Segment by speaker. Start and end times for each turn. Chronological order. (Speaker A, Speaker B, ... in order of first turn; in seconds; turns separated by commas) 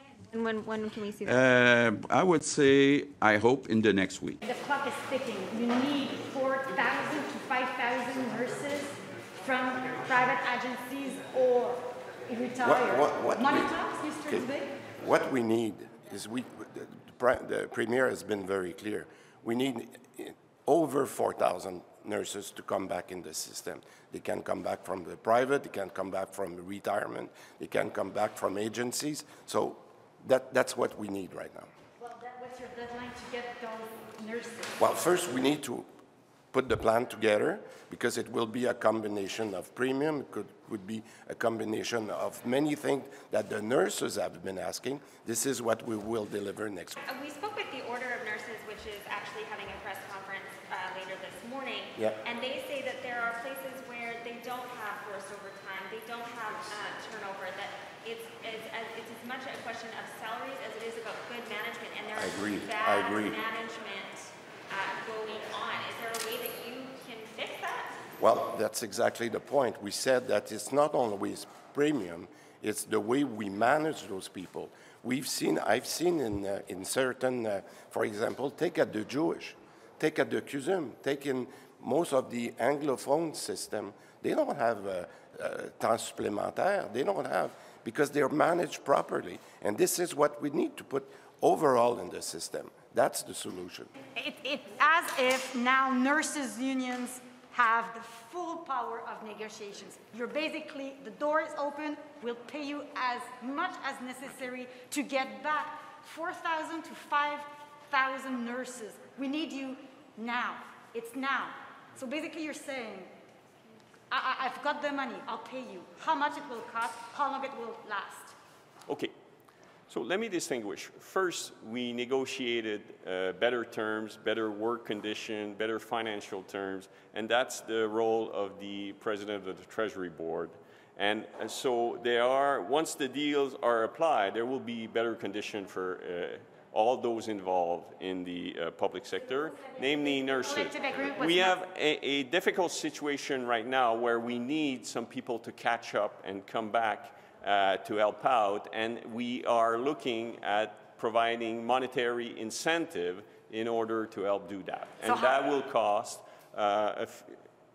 Speaker A: 0.3-1.4, Speaker B: 1.2-4.4, Speaker C: 4.4-14.8, Speaker D: 12.6-13.7, Speaker D: 15.0-31.7, Speaker C: 32.0-34.8, Speaker D: 34.8-35.9, Speaker D: 36.5-47.0, Speaker A: 47.0-68.0, Speaker D: 62.1-63.4, Speaker D: 68.2-93.9, Speaker C: 94.1-113.1, Speaker C: 114.1-118.3, Speaker E: 118.9-119.1, Speaker E: 119.9-157.4, Speaker C: 140.4-141.6, Speaker C: 155.0-155.5